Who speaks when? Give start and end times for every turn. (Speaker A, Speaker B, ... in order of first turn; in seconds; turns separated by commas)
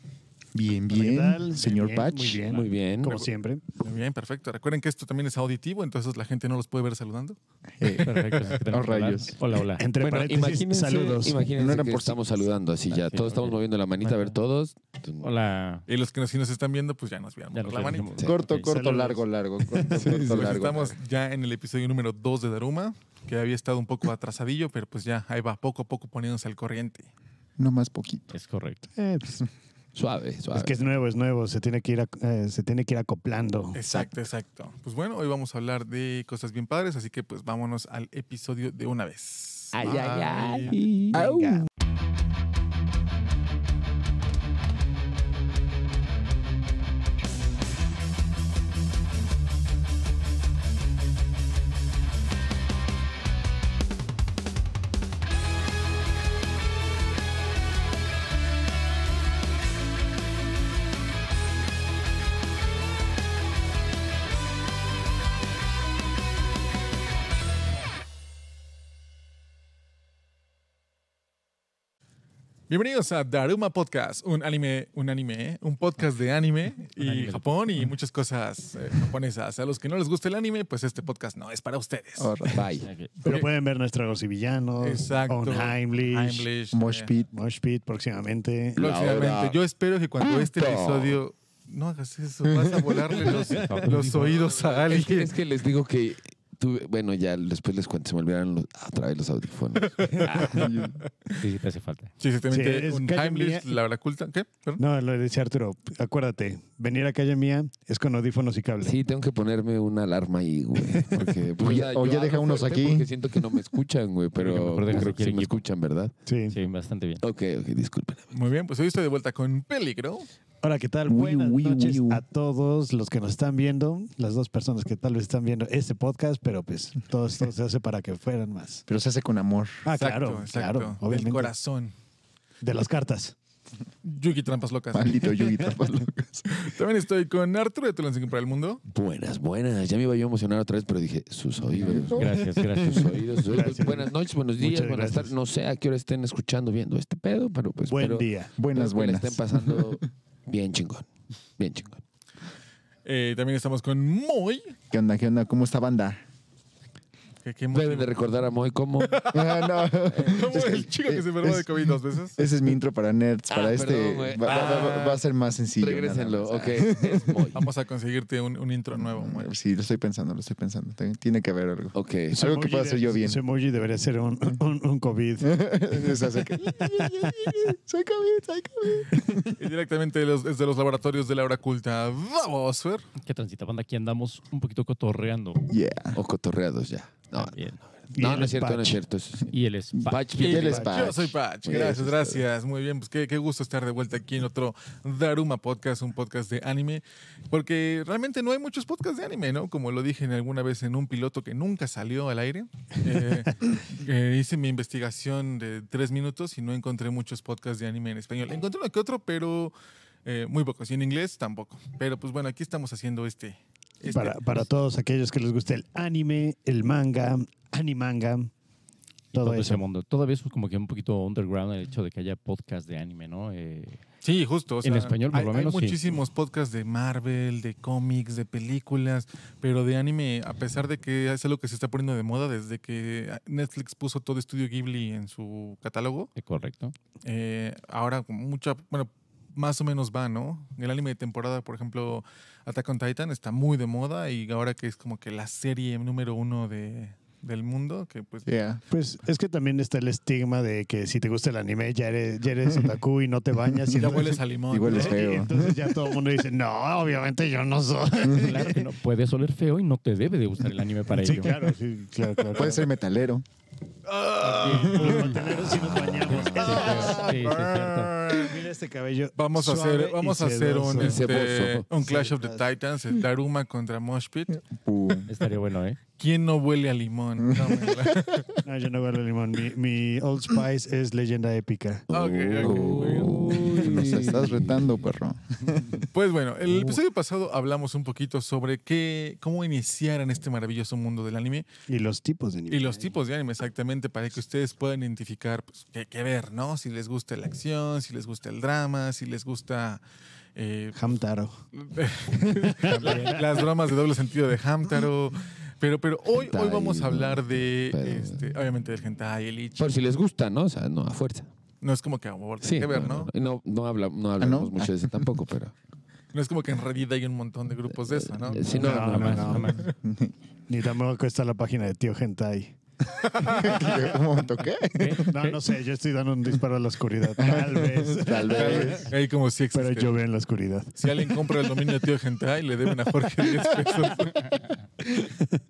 Speaker A: 0.5-2.4, Speaker B: 0.9-3.6, Speaker C: 2.5-3.2, Speaker D: 3.0-7.4, Speaker A: 7.8-9.4, Speaker E: 7.9-9.9, Speaker B: 9.8-11.4, Speaker C: 10.0-15.3, Speaker A: 11.6-12.3, Speaker E: 12.9-14.4, Speaker E: 15.2-15.8, Speaker D: 15.9-18.1, Speaker E: 17.5-18.7, Speaker A: 18.2-20.8, Speaker B: 18.6-19.2, Speaker C: 19.9-20.9, Speaker D: 20.3-27.1, Speaker A: 27.6-28.3, Speaker E: 28.3-28.9, Speaker B: 28.9-29.5, Speaker C: 29.9-30.9, Speaker B: 30.5-33.8, Speaker D: 33.7-40.8, Speaker A: 33.8-34.1, Speaker C: 39.7-41.6, Speaker B: 39.8-41.6, Speaker A: 41.1-41.6, Speaker D: 72.7-82.5, Speaker E: 77.0-77.8, Speaker A: 82.2-82.6, Speaker C: 82.5-82.9, Speaker E: 82.8-83.2, Speaker B: 83.2-86.5, Speaker D: 84.8-87.1, Speaker A: 86.7-87.3, Speaker B: 87.3-88.9, Speaker C: 88.8-89.6, Speaker D: 88.8-95.3, Speaker C: 90.2-91.2, Speaker E: 93.5-94.4, Speaker C: 94.6-100.6, Speaker D: 99.9-100.8, Speaker A: 100.5-101.0, Speaker E: 101.4-102.1, Speaker D: 102.2-104.8, Speaker B: 102.5-103.7, Speaker B: 104.8-109.0, Speaker C: 108.8-116.1, Speaker A: 111.6-113.1, Speaker E: 114.3-115.7, Speaker B: 116.3-116.6, Speaker E: 116.5-117.2, Speaker C: 117.2-118.3, Speaker D: 118.3-120.3, Speaker B: 120.6-128.8, Speaker A: 121.1-122.2, Speaker A: 128.9-129.8, Speaker B: 129.8-131.5, Speaker D: 129.9-131.9, Speaker B: 132.6-133.4, Speaker D: 134.0-135.2, Speaker A: 134.9-136.6, Speaker D: 136.5-138.8, Speaker C: 138.9-151.1, Speaker A: 141.8-142.3, Speaker E: 142.2-143.2, Speaker B: 143.4-145.3, Speaker B: 147.9-148.6, Speaker A: 148.6-150.0, Speaker C: 151.6-152.0, Speaker D: 153.1-154.8, Speaker A: 154.9-156.2, Speaker D: 157.4-158.2, Speaker C: 157.7-159.2, Speaker D: 159.0-162.4, Speaker A: 159.3-167.4, Speaker C: 160.1-160.6, Speaker C: 163.5-165.2, Speaker D: 164.5-165.0, Speaker C: 165.8-167.7, Speaker D: 167.5-169.5, Speaker A: 168.9-173.4, Speaker C: 171.9-172.5, Speaker B: 172.3-175.6, Speaker A: 175.4-179.6, Speaker B: 176.1-177.8, Speaker D: 179.6-183.1, Speaker E: 183.2-185.6, Speaker A: 185.7-186.2, Speaker C: 186.2-189.5, Speaker E: 187.4-187.8, Speaker B: 188.1-189.0, Speaker E: 189.4-190.8, Speaker A: 189.9-192.0, Speaker C: 190.1-190.9, Speaker D: 190.4-209.7, Speaker B: 190.7-191.0, Speaker C: 191.7-192.4, Speaker D: 210.2-214.7, Speaker B: 214.1-218.5, Speaker B: 219.3-219.8, Speaker E: 219.3-224.0, Speaker D: 224.2-236.3, Speaker E: 224.8-226.2, Speaker E: 236.4-236.9, Speaker D: 237.2-248.5, Speaker A: 248.5-248.8, Speaker B: 248.9-258.9, Speaker A: 253.7-255.9, Speaker D: 253.9-255.2, Speaker E: 258.4-261.6, Speaker B: 261.1-262.8, Speaker A: 262.6-263.4, Speaker D: 264.1-265.6, Speaker B: 264.4-267.6, Speaker E: 264.6-265.6, Speaker E: 266.3-268.2, Speaker A: 266.3-266.9, Speaker D: 266.6-268.6, Speaker B: 268.2-271.3, Speaker D: 269.4-274.6, Speaker C: 270.9-271.9, Speaker B: 272.0-272.7, Speaker A: 274.6-275.3, Speaker E: 275.3-276.0, Speaker D: 276.2-278.6, Speaker A: 277.4-278.2, Speaker B: 278.6-282.1, Speaker C: 282.1-285.0, Speaker D: 282.1-283.8, Speaker A: 282.6-286.1, Speaker E: 283.0-283.5, Speaker D: 286.1-291.7, Speaker B: 286.7-287.0, Speaker B: 291.9-293.2, Speaker D: 292.7-300.0, Speaker D: 300.6-301.1, Speaker B: 300.9-301.6, Speaker D: 301.7-310.0, Speaker B: 302.6-303.7, Speaker C: 306.3-308.4, Speaker C: 309.8-311.5, Speaker D: 311.8-313.3, Speaker C: 312.6-315.7, Speaker A: 314.4-315.2, Speaker D: 316.3-319.9, Speaker C: 318.0-319.7, Speaker E: 318.6-319.9, Speaker B: 318.7-319.8, Speaker A: 320.0-320.3, Speaker B: 320.7-322.8, Speaker D: 323.3-323.6, Speaker B: 323.4-324.0, Speaker A: 323.4-325.3, Speaker E: 324.9-325.6, Speaker B: 325.3-329.1, Speaker A: 327.4-328.9, Speaker C: 328.3-329.0, Speaker D: 328.5-330.2, Speaker B: 329.7-331.9, Speaker D: 331.0-334.6